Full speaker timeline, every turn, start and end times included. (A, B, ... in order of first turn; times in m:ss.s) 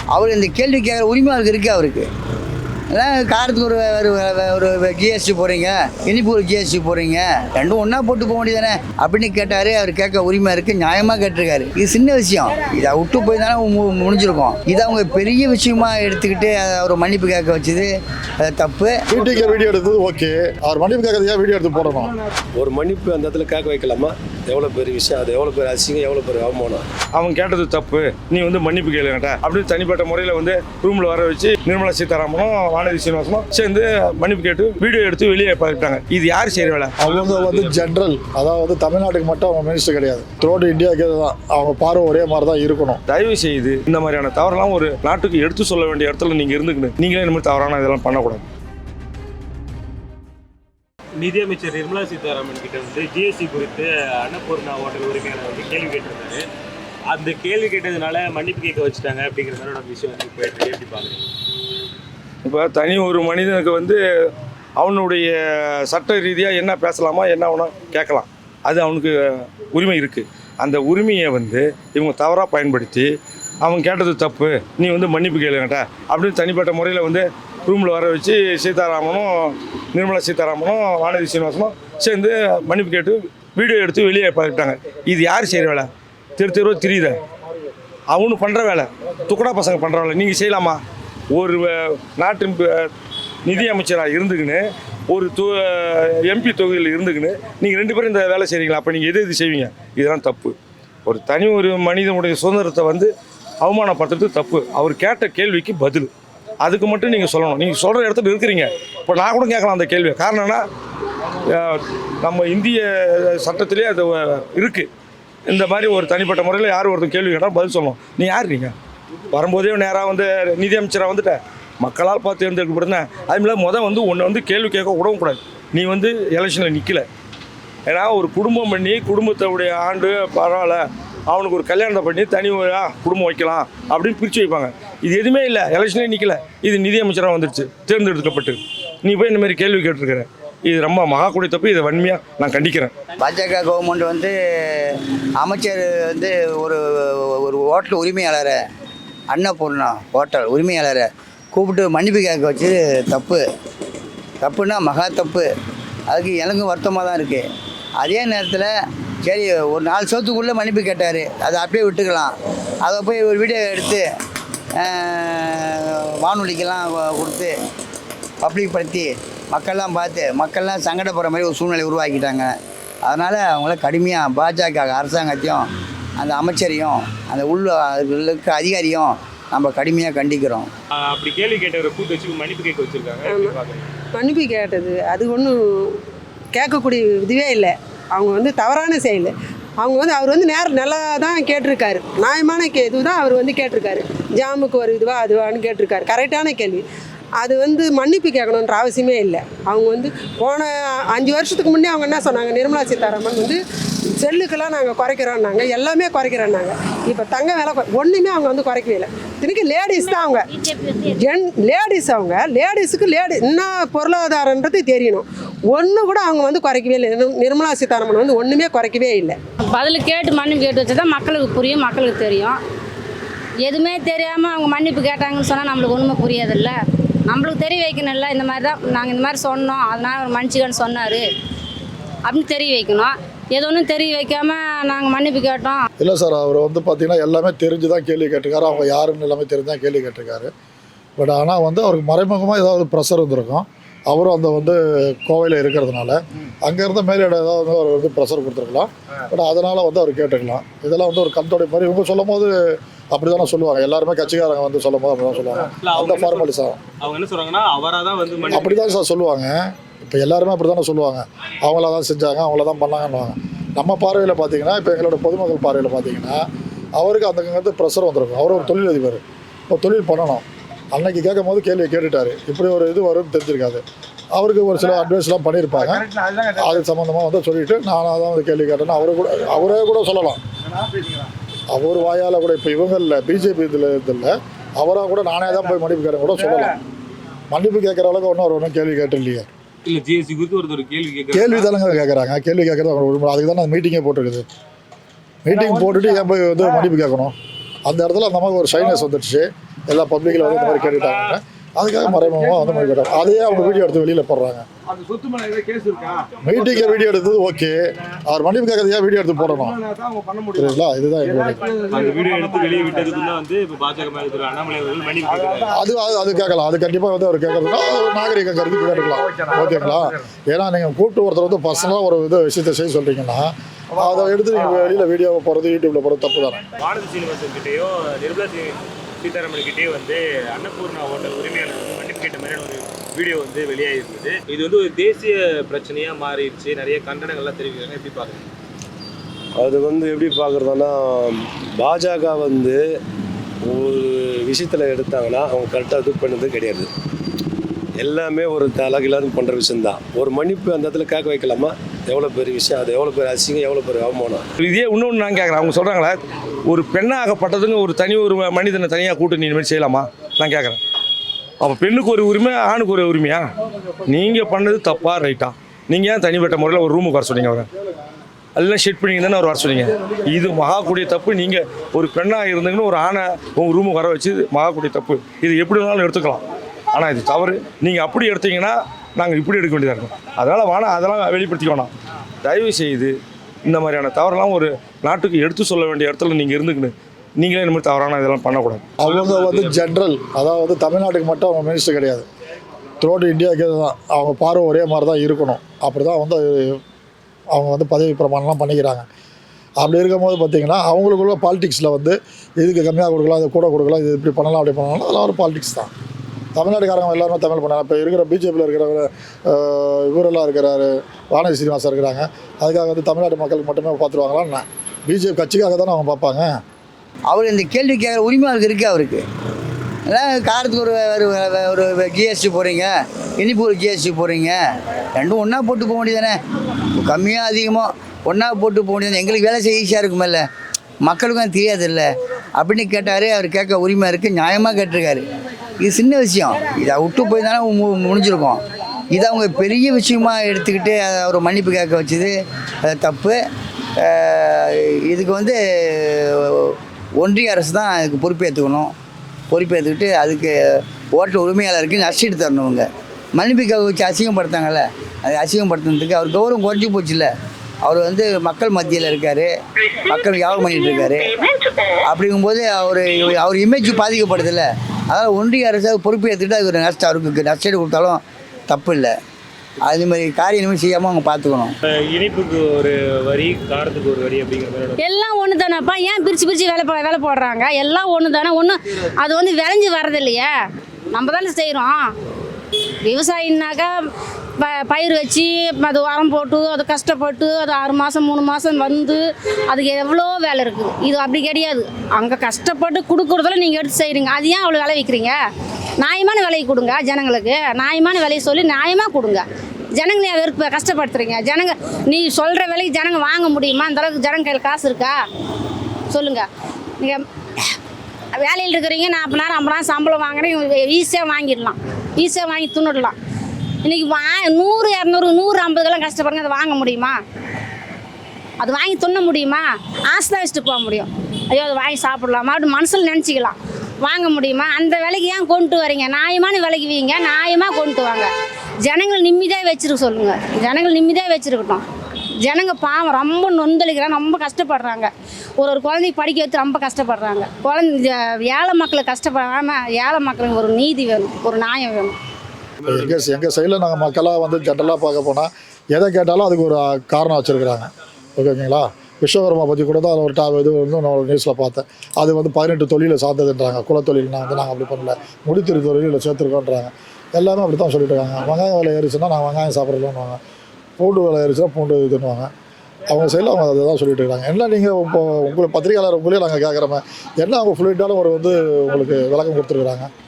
0:00.1-0:02.1 A
0:02.9-0:19.0 A
0:19.1-0:22.1 B
0:22.6-0:26.8 C
0:27.2-0:37.7 D
0:37.0-0:43.0 B
0:43.1-0:48.4 D
0:51.2-0:56.5 E
0:57.1-1:01.3 E
1:02.4-1:04.0 D
1:04.8-1:13.1 D
1:13.6-1:27.2 D
1:28.1-1:30.8 D
1:31.3-1:32.9 D
1:33.4-1:46.1 D
1:46.6-1:50.6 D
1:51.4-1:54.9 D
1:55.5-1:58.7 D
1:59.3-2:07.0 D
2:07.9-2:22.9 D
2:23.2-2:28.6 A
2:29.3-2:33.4 A
2:34.4-2:35.5 A
2:36.1-2:37.4 A
2:38.0-2:44.1 A
2:44.8-2:47.5 A
2:48.4-2:55.7 A
2:56.2-3:00.7 A
3:00.9-3:03.9 E
3:03.2-3:03.6 F
3:04.1-3:06.0 F
3:06.5-3:16.8 F
3:17.4-3:23.6 F
3:24.2-3:30.5 F
3:30.0-3:31.2 G
3:31.2-3:39.4 F
3:39.7-3:42.6 G
3:43.6-3:46.8 G
3:47.3-3:51.2 G
3:52.3-3:55.9 G
3:56.0-4:00.5 B
4:01.2-4:12.6 B
4:13.1-4:16.8 B
4:15.8-4:19.0 E
4:18.5-4:26.4 B
4:27.0-4:33.8 B
4:34.3-4:40.4 B
4:41.7-4:46.8 B
4:47.5-4:49.5 B
4:49.8-4:51.7 E
4:51.3-4:54.4 B
4:55.4-4:57.4 B
4:57.9-5:04.7 B
5:06.4-5:09.9 B
5:10.5-5:11.9 B
5:11.9-5:15.8 E
5:15.7-5:26.6 B
5:26.8-5:38.4 E
5:39.6-5:43.0 C
5:43.7-5:46.9 C
5:48.0-5:54.4 C
5:54.6-6:00.8 D
6:01.6-6:03.4 D
6:04.1-6:07.7 D
6:08.6-6:16.4 D
6:16.9-6:21.9 D
6:22.4-6:23.1 D
6:23.7-6:29.7 D
6:29.0-6:32.3 B
6:33.0-6:36.8 B
6:37.5-6:39.1 B
6:39.8-6:45.9 B
6:46.6-6:56.6 B
6:57.3-6:59.2 A
7:00.1-7:04.6 A
7:05.2-7:06.4 A
7:06.9-7:10.4 A
7:11.0-7:15.2 A
7:15.8-7:23.4 A
7:24.0-7:28.9 A
7:29.5-7:37.3 A
7:37.8-7:39.5 A
7:40.0-7:41.5 A
7:42.1-7:49.2 A
7:49.8-7:51.8 A
7:51.8-7:55.0 E
7:55.0-8:00.5 G
8:01.1-8:02.1 G
8:03.1-8:03.9 G
8:04.6-8:15.4 G
8:16.0-8:19.4 G
8:20.0-8:25.2 G
8:26.1-8:26.5 G
8:27.0-8:27.8 G
8:28.4-8:33.2 G
8:33.8-8:37.2 G
8:38.6-8:48.3 G
8:48.8-8:51.8 G
8:52.4-9:02.2 G
9:02.8-9:03.2 E
9:02.8-9:20.4 B
9:21.0-9:22.5 B
9:23.1-9:30.1 B